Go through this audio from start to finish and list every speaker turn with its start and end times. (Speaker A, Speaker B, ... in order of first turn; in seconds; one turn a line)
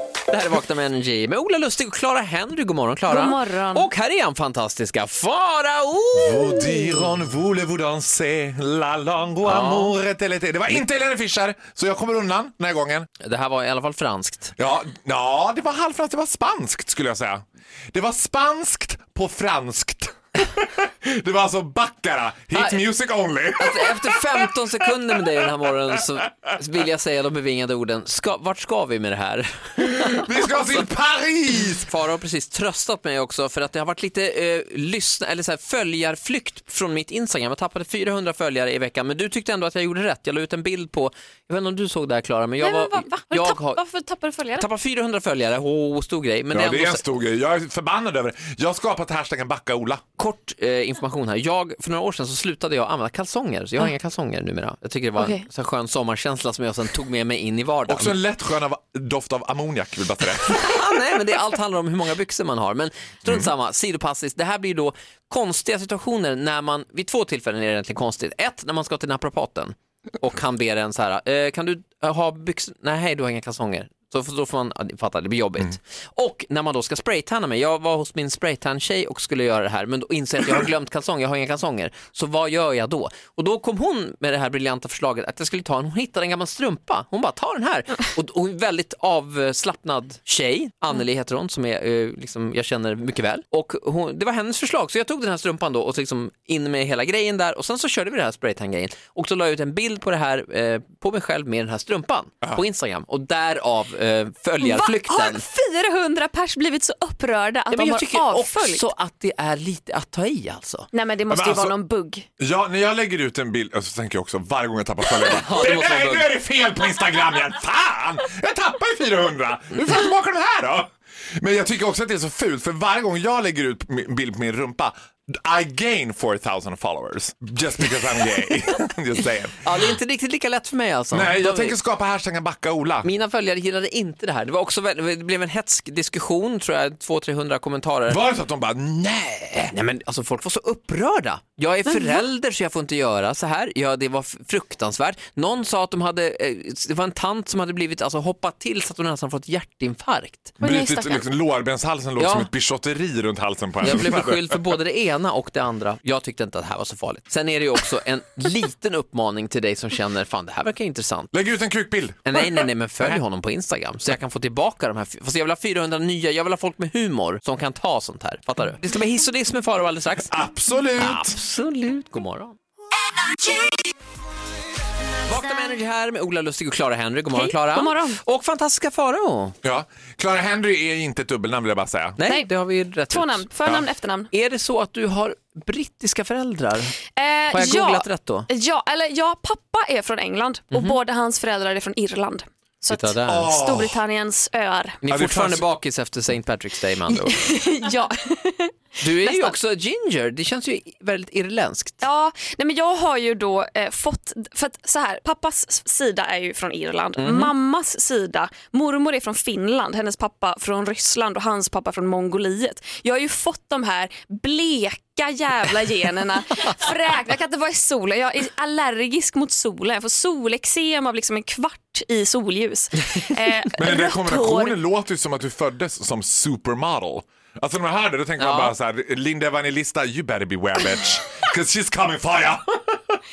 Speaker A: 0.3-6.6
Speaker B: 3.1-3.9
Speaker C: 6.2-13.1
Speaker A: 9.4-9.9
Speaker A: 13.2-14.5
Speaker C: 14.6-24.2
Speaker A: 22.5-22.8
Speaker A: 23.6-30.8
Speaker C: 29.8-31.9
Speaker A: 31.7-43.8
Speaker B: 42.6-44.7
Speaker A: 44.6-47.1
Speaker C: 46.5-50.0
Speaker A: 50.2-58.2
Speaker B: 55.2-55.5
Speaker C: 57.9-60.8
Speaker A: 60.5-105.5
Speaker B: 104.6-108.9
Speaker A: 107.7-110.9
Speaker B: 110.9-112.3
Speaker C: 111.3-111.8
Speaker C: 112.4-129.6
Speaker A: 115.3-116.3
Speaker A: 129.6-131.8
Speaker C: 131.1-133.1
Speaker A: 133.0-138.2
Speaker C: 138.1-139.7
Speaker A: 139.7-150.6
Speaker C: 150.6-154.6
Speaker B: 150.6-151.3
Speaker A: 152.2-152.5
Speaker A: 153.8-161.3
Speaker C: 161.3-163.2
Speaker A: 162.3-170.3
Speaker C: 170.3-171.4
Speaker A: 171.0-172.6
Speaker A: 175.3-179.6
Speaker B: 177.3-178.2
Speaker C: 179.6-182.2
Speaker A: 182.2-183.5
Speaker B: 182.2-182.6
Speaker B: 183.1-184.3
Speaker C: 183.6-183.9
Speaker A: 184.3-187.0
Speaker B: 187.2-195.0
Speaker A: 187.5-188.5
Speaker A: 190.7-191.0
Speaker A: 192.9-193.5
Speaker C: 193.3-194.0
Speaker A: 195.0-197.4
Speaker C: 195.1-195.7
Speaker B: 197.2-199.6
Speaker A: 199.0-202.0
Speaker B: 202.0-224.8
Speaker A: 207.2-207.5
Speaker C: 223.8-233.2
Speaker A: 228.4-228.7